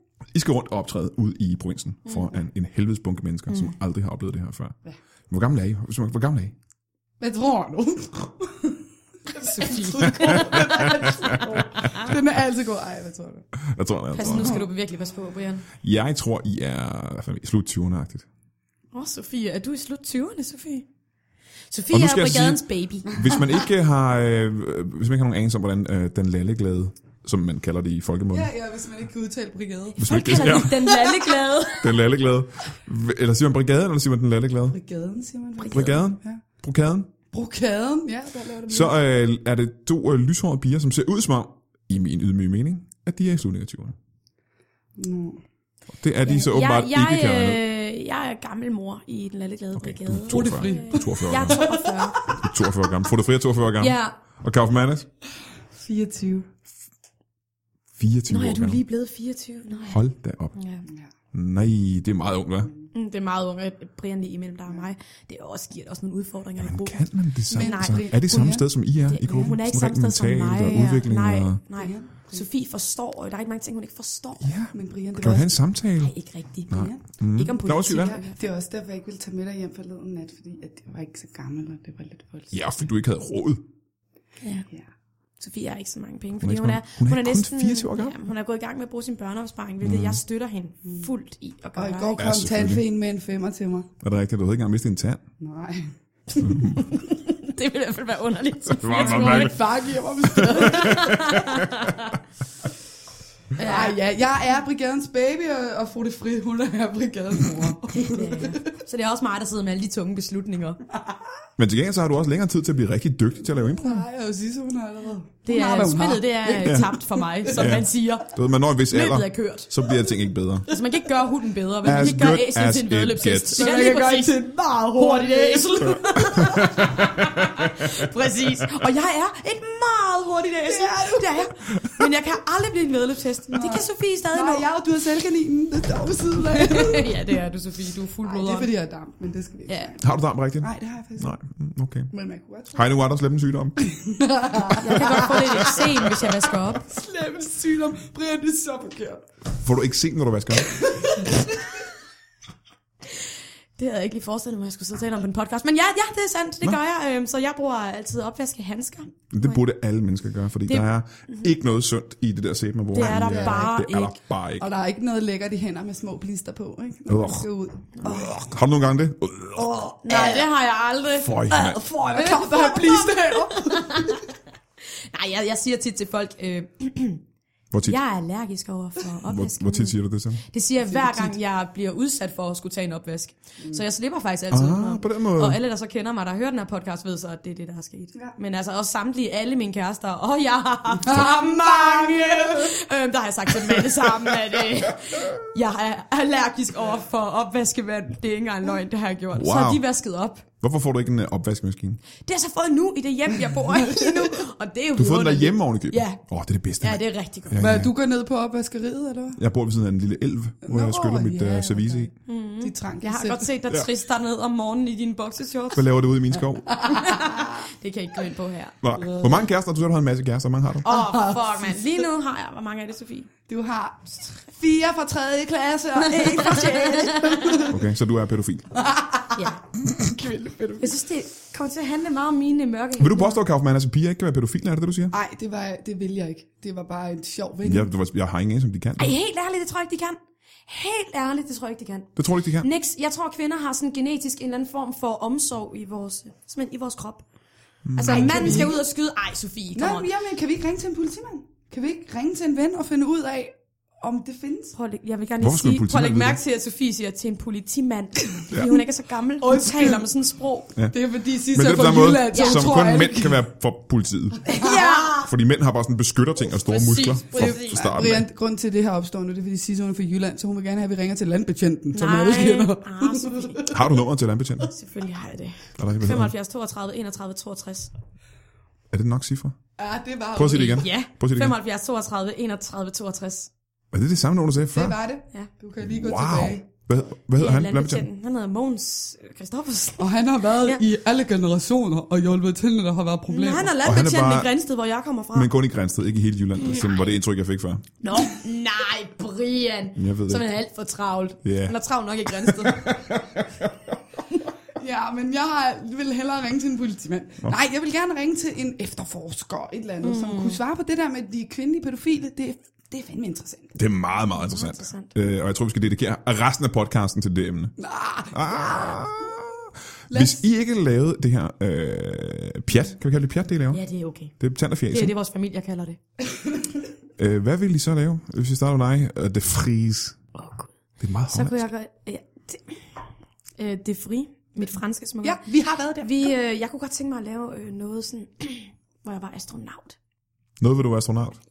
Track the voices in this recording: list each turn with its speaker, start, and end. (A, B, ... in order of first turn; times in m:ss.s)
0:00.3-0:04.8 A
0:02.1-0:02.3 B
0:05.3-0:06.6 A
0:07.2-0:13.5 C
0:09.4-0:12.1 B
0:10.1-0:12.1 A
0:13.6-0:14.6 A
0:14.1-0:15.7 B
0:14.2-0:14.7 C
0:15.8-0:18.3 A
0:18.9-0:20.9 B
0:21.7-0:23.6 B
0:21.9-0:28.5 A
0:23.1-0:23.4 C
0:28.3-0:31.4 C
0:30.0-0:30.9 A
0:30.1-0:32.0 B
0:31.8-0:34.8 A
0:34.7-0:36.4 C
0:35.6-0:36.0 B
0:35.7-0:37.1 A
0:37.3-0:39.0 C
0:38.7-0:44.0 A
0:45.0-0:45.4 C
0:46.0-0:47.6 A
0:46.2-0:52.3 B
0:49.8-0:51.7 A
0:50.3-0:52.5 C
0:52.2-0:55.1 A
0:53.8-0:54.2 B
0:55.7-0:56.5 C
0:58.0-0:58.8 A
0:58.3-1:00.0 B
0:59.9-1:00.6 A
1:00.6-1:00.9 B
1:00.9-1:01.1 C
1:01.3-1:02.7 A
1:02.9-1:08.2 B
1:06.6-1:11.6 A
1:07.5-1:08.7 C
1:09.1-1:14.5 B
1:11.8-1:12.5 C
1:14.4-1:16.1 A
1:14.7-1:15.5 C
1:16.0-1:18.4 B
1:16.7-1:18.2 A
1:16.7-1:17.0 C
1:17.7-1:22.5 C
1:22.5-1:23.6 A
1:25.4-1:32.2 B
1:26.4-1:28.2 A
1:29.8-1:30.2 A
1:31.8-1:33.9 C
1:32.2-1:32.8 A
1:34.0-1:35.2 A
1:35.4-1:36.4 C
1:36.4-1:36.9 A
1:36.7-1:39.6 B
1:38.7-1:39.6 A
1:38.9-1:41.4 C
1:40.2-1:42.0 A
1:40.3-1:42.1 B
1:43.6-1:44.0 B
1:43.6-1:48.8 C
1:47.9-1:50.8 B
1:51.6-1:54.1 A
1:53.5-1:57.9 C
1:55.4-1:59.9 B
1:56.6-1:56.9 A
1:57.5-2:00.7 A
2:00.7-2:14.7 B
2:01.8-2:03.7 A
2:03.5-2:06.4 C
2:06.3-2:08.1 A
2:10.6-2:11.5 C
2:13.5-2:17.3 C
2:16.5-2:18.7 B
2:18.2-2:21.3 C
2:19.7-2:20.0 B
2:20.0-2:22.1 A
2:22.1-2:22.8 C
2:22.7-2:23.9 A
2:23.8-2:29.2 C
2:24.8-2:26.8 B
2:29.6-2:30.8 A
2:30.6-2:31.7 C
2:33.8-2:39.6 B
2:39.3-2:44.7 A
2:40.7-2:41.4 B
2:42.9-2:44.2 B
2:43.0-2:43.8 C
2:44.6-2:48.4 C
2:47.1-2:47.5 A
2:48.0-2:48.3 B
2:48.1-2:49.8 A
2:50.0-2:57.2 B
2:50.1-2:50.5 C
2:51.1-2:51.8 A
2:51.8-2:54.3 C
2:57.7-2:58.0 A
2:57.8-3:20.4 B
2:59.3-3:00.4 A
3:00.8-3:01.4 C
3:04.5-3:05.6 A
3:11.0-3:12.8 C
3:19.3-3:19.8 A
3:20.6-3:22.0 A
3:22.2-3:26.2 B
3:23.4-3:24.5 C
3:25.0-3:27.9 A
3:26.8-3:27.7 B
3:27.6-3:29.4 C
3:29.4-3:32.1 A
3:30.6-3:33.5 C
3:32.3-3:35.9 B
3:35.7-3:37.0 A
3:36.7-3:37.6 C
3:36.8-3:38.8 B
3:38.8-3:40.9 A
3:40.8-3:43.3 B
3:40.8-3:42.0 C
3:43.5-3:47.8 C
3:46.0-3:47.7 B
3:47.7-3:48.7 A
3:48.7-3:51.0 C
3:49.4-3:49.6 B
3:50.8-3:53.4 B
3:53.0-3:55.2 A
3:55.1-3:57.9 C
3:57.6-3:59.1 A
3:59.0-4:07.2 B
4:02.2-4:02.7 A
4:07.9-4:08.7 A
4:08.0-4:10.1 B
4:08.0-4:08.8 C
4:09.7-4:14.8 C
4:14.7-4:20.7 B
4:15.4-4:16.4 A
4:19.4-4:20.1 C
4:20.9-4:23.4 C
4:21.5-4:24.5 A
4:22.3-4:22.7 B
4:24.4-4:25.1 C
4:24.5-4:25.3 B
4:25.2-4:28.3 A
4:26.5-4:27.9 B
4:27.4-4:33.9 C
4:31.9-4:33.6 B
4:33.7-4:34.7 A
4:34.6-4:37.9 B
4:35.8-4:36.3 A
4:38.9-4:39.6 A
4:39.8-4:40.9 C
4:40.4-4:41.6 A
4:40.5-4:43.5 B
4:43.9-4:45.0 A
4:44.7-4:46.6 C
4:45.8-4:48.1 A
4:47.4-4:50.8 B
4:50.0-4:53.8 C
4:53.3-4:55.5 B
4:53.8-4:54.5 A
4:55.3-4:57.9 A
4:56.6-4:57.1 B
4:58.0-5:03.2 B
5:00.0-5:00.5 A
5:01.4-5:01.8 A
5:02.4-5:03.7 A
5:04.8-5:13.8 C
5:10.0-5:10.6 B
5:13.8-5:17.8 A
5:14.4-5:15.1 B
5:17.8-5:19.1 C
5:18.3-5:23.8 A
5:20.1-5:20.5 C
5:23.7-5:24.4 B
5:24.4-5:25.1 A
5:24.9-5:26.0 B
5:27.2-5:30.2 A
5:30.4-5:30.7 B
5:31.0-5:31.6 A
5:31.3-5:32.8 B
5:33.6-5:35.4 B
5:35.2-5:36.3 C
5:36.0-5:40.0 B
5:40.6-5:41.4 A